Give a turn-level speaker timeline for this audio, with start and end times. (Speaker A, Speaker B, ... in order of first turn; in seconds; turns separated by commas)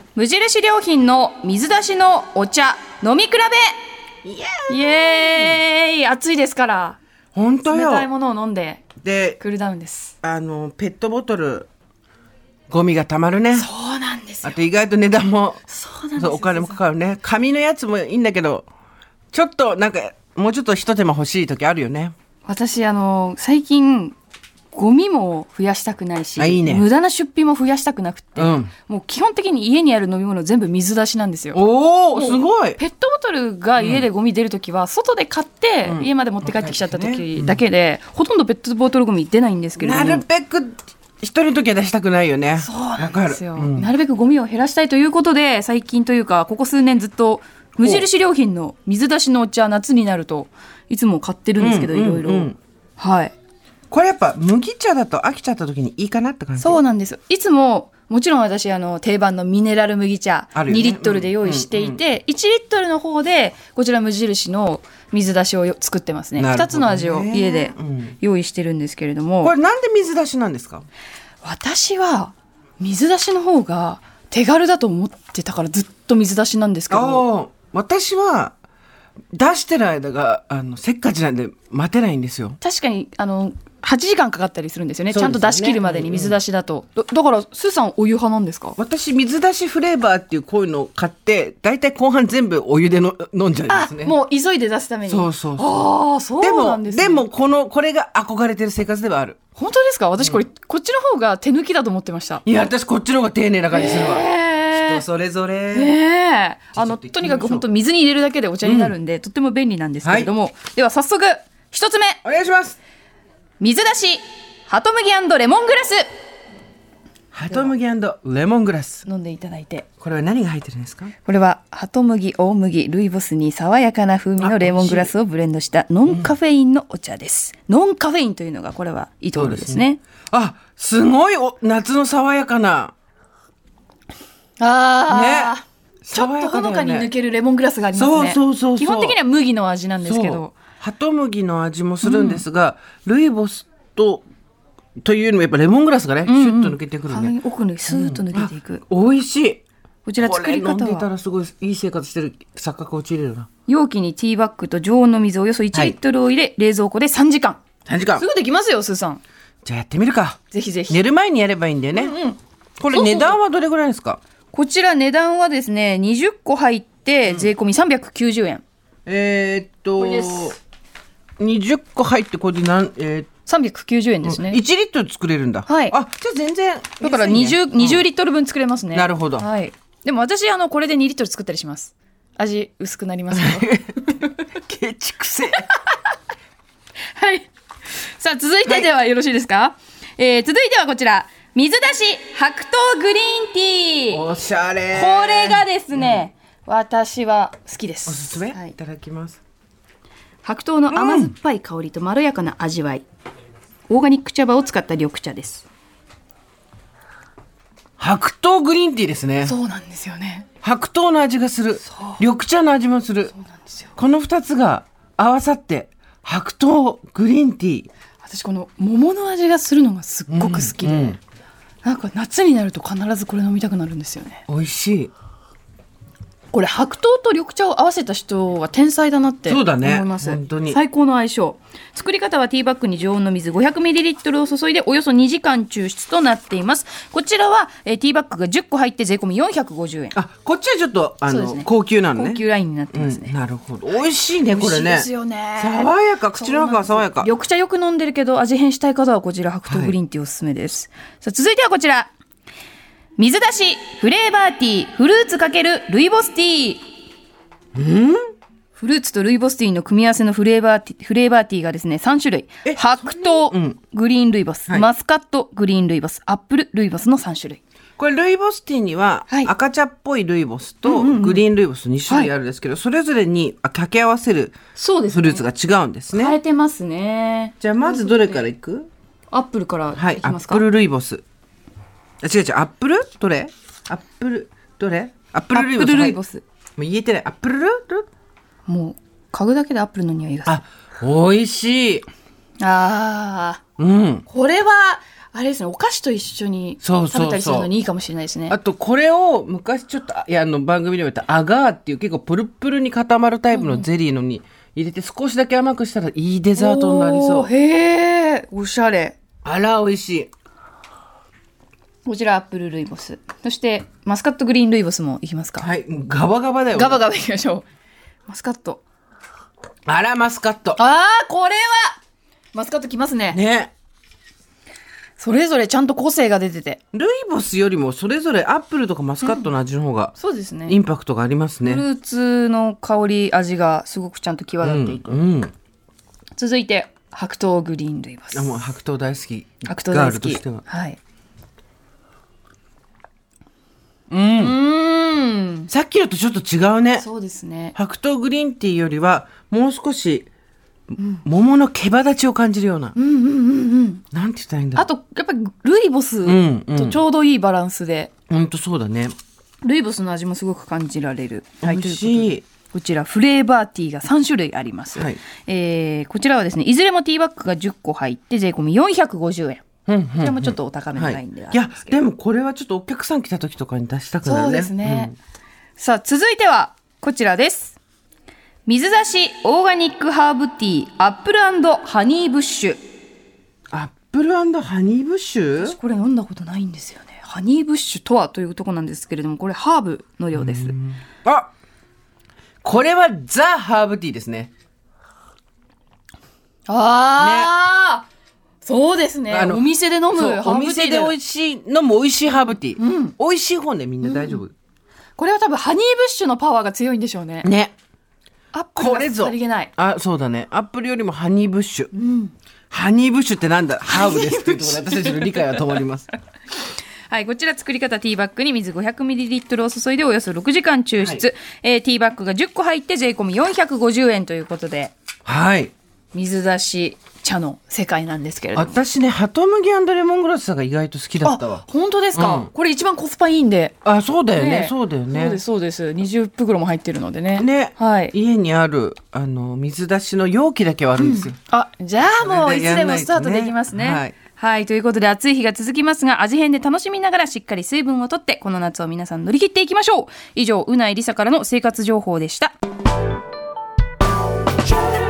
Speaker A: 0.1-3.8, Speaker B: 4.2-5.6, Speaker A: 4.7-7.0, Speaker B: 7.3-8.1, Speaker A: 7.7-8.9, Speaker B: 9.0-9.4, Speaker A: 9.4-10.1, Speaker B: 10.2-11.7, Speaker B: 12.7-13.7, Speaker A: 13.5-14.6, Speaker B: 14.4-15.6, Speaker A: 15.7-16.8, Speaker B: 16.2-18.7, Speaker B: 19.3-22.1, Speaker A: 22.4-24.1, Speaker A: 24.7-31.6, Speaker B: 26.4-26.9, Speaker B: 28.4-28.7, Speaker B: 31.5-32.8, Speaker A: 32.1-40.2, Speaker B: 33.8-34.0, Speaker B: 35.9-37.6, Speaker B: 39.8-43.9, Speaker A: 42.6-53.3, Speaker B: 51.6-52.5, Speaker B: 53.9-56.8, Speaker A: 56.6-69.5, Speaker B: 60.5-62.0, Speaker B: 66.4-68.2, Speaker B: 69.4-70.8, Speaker A: 71.4-77.2, Speaker B: 76.9-78.5, Speaker B: 79.3-82.6, Speaker A: 82.6-88.8, Speaker B: 85.1-86.4, Speaker B: 88.8-94.1, Speaker A: 93.7-97.2, Speaker B: 95.1-99.4, Speaker A: 99.5-102.4, Speaker B: 102.5-105.9, Speaker A: 103.7-105.0, Speaker A: 105.7-112.2, Speaker B: 106.7-107.7, Speaker B: 108.6-108.9, Speaker B: 110.0-110.3, Speaker B: 112.2-112.8, Speaker A: 113.6-116.0, Speaker B: 117.3-119.0, Speaker A: 119.0-119.9, Speaker B: 120.0-121.1, Speaker A: 121.2-130.0, Speaker B: 124.4-125.1, Speaker B: 126.0-126.3, Speaker B: 129.3-132.9, Speaker A: 134.6-140.5, Speaker B: 135.1-137.1, Speaker B: 137.9-139.2, Speaker B: 140.0-144.2, Speaker A: 142.0-142.4, Speaker B: 145.0-147.3, Speaker A: 146.2-148.8, Speaker B: 147.9-149.6, Speaker A: 150.0-151.1, Speaker B: 150.2-153.5, Speaker A: 153.7-157.6, Speaker B: 157.8-158.2, Speaker A: 158.2-159.2, Speaker B: 159.6-162.2, Speaker A: 160.5-161.0, Speaker A: 161.9-162.4, Speaker B: 162.8-164.2, Speaker A: 162.9-163.3, Speaker A: 164.5-168.6, Speaker B: 169.1-170.6, Speaker A: 170.0-170.6, Speaker B: 171.4-173.3, Speaker A: 173.4-174.6, Speaker B: 174.2-178.0, Speaker A: 175.7-175.9, Speaker A: 177.0-184.3, Speaker B: 178.9-179.5, Speaker B: 183.3-185.7, Speaker A: 185.5-185.8, Speaker A: 187.1-187.5, Speaker A: 188.2-194.2, Speaker B: 194.1-196.2, Speaker A: 194.9-198.7, Speaker B: 198.1-199.4, Speaker A: 200.4-203.0, Speaker B: 200.9-201.3, Speaker A: 203.9-205.7, Speaker B: 208.0-209.5, Speaker A: 209.4-210.4, Speaker B: 210.6-213.3, Speaker A: 211.8-212.2, Speaker A: 213.3-213.9, Speaker B: 214.0-217.9, Speaker A: 218.2-221.2, Speaker B: 220.3-221.2, Speaker A: 221.8-224.4, Speaker B: 224.5-225.1, Speaker A: 226.5-240.2, Speaker B: 229.4-230.8, Speaker B: 240.1-242.4, Speaker A: 241.2-243.3, Speaker B: 242.9-247.3, Speaker A: 244.5-252.1, Speaker B: 249.7-249.9, Speaker A: 253.2-256.9, Speaker B: 257.7-258.2, Speaker A: 258.7-267.6, Speaker B: 262.6-263.8, Speaker B: 268.0-274.6, Speaker A: 270.8-271.4, Speaker A: 274.7-275.4, Speaker B: 275.1-276.4, Speaker A: 276.1-278.5, Speaker B: 277.6-278.9, Speaker A: 279.3-280.6, Speaker B: 279.9-281.2, Speaker B: 282.2-286.1, Speaker A: 285.5-286.4, Speaker B: 286.8-288.1, Speaker A: 288.6-290.6, Speaker B: 290.4-292.1, Speaker A: 292.6-293.6, Speaker B: 293.8-294.2, Speaker A: 294.3-298.6, Speaker B: 296.8-297.7, Speaker B: 298.5-307.5, Speaker A: 303.5-303.9, Speaker A: 306.6-309.2, Speaker B: 309.4-310.3, Speaker A: 312.0-315.7, Speaker B: 315.6-317.0, Speaker A: 316.7-317.7, Speaker A: 318.3-318.8, Speaker B: 319.9-320.8, Speaker A: 320.8-322.0, Speaker A: 322.5-323.4, Speaker B: 323.3-323.7, Speaker A: 325.2-326.8, Speaker B: 326.9-330.1, Speaker A: 329.2-329.5, Speaker A: 330.2-330.8, Speaker B: 330.7-331.8, Speaker A: 331.6-335.2, Speaker B: 334.6-335.5, Speaker A: 336.3-338.7, Speaker B: 338.3-340.6, Speaker A: 339.6-341.0, Speaker B: 344.1-344.6, Speaker A: 344.4-345.7, Speaker B: 345.7-347.0, Speaker A: 347.0-347.7, Speaker B: 347.7-350.3, Speaker B: 350.9-352.9, Speaker A: 351.0-351.2, Speaker A: 352.9-354.0, Speaker B: 354.1-354.9, Speaker A: 354.7-358.1, Speaker B: 356.2-357.0, Speaker B: 358.3-359.1, Speaker A: 359.6-369.6, Speaker B: 361.6-362.4, Speaker B: 364.9-365.2, Speaker B: 369.9-375.1, Speaker A: 370.2-372.0, Speaker A: 374.2-375.1, Speaker A: 375.8-377.8, Speaker A: 378.6-382.8, Speaker B: 383.7-385.8, Speaker A: 385.6-390.8, Speaker B: 390.3-391.5, Speaker B: 392.6-394.5, Speaker A: 396.7-398.1, Speaker B: 397.2-397.5, Speaker A: 398.6-401.1, Speaker B: 399.3-404.5, Speaker A: 402.8-403.1, Speaker A: 404.0-404.4, Speaker A: 405.2-407.5, Speaker B: 407.4-407.7, Speaker A: 408.5-409.7, Speaker B: 408.8-411.9, Speaker A: 411.9-412.3, Speaker B: 412.7-416.1, Speaker A: 413.9-415.6, Speaker A: 417.1-424.9, Speaker B: 421.0-421.2, Speaker B: 425.2-425.7, Speaker A: 426.1-428.8, Speaker B: 428.5-431.6, Speaker A: 431.2-433.7, Speaker B: 432.1-432.5, Speaker B: 433.8-435.4, Speaker A: 434.3-438.1, Speaker B: 437.4-441.4, Speaker A: 441.0-452.5, Speaker B: 442.0-444.1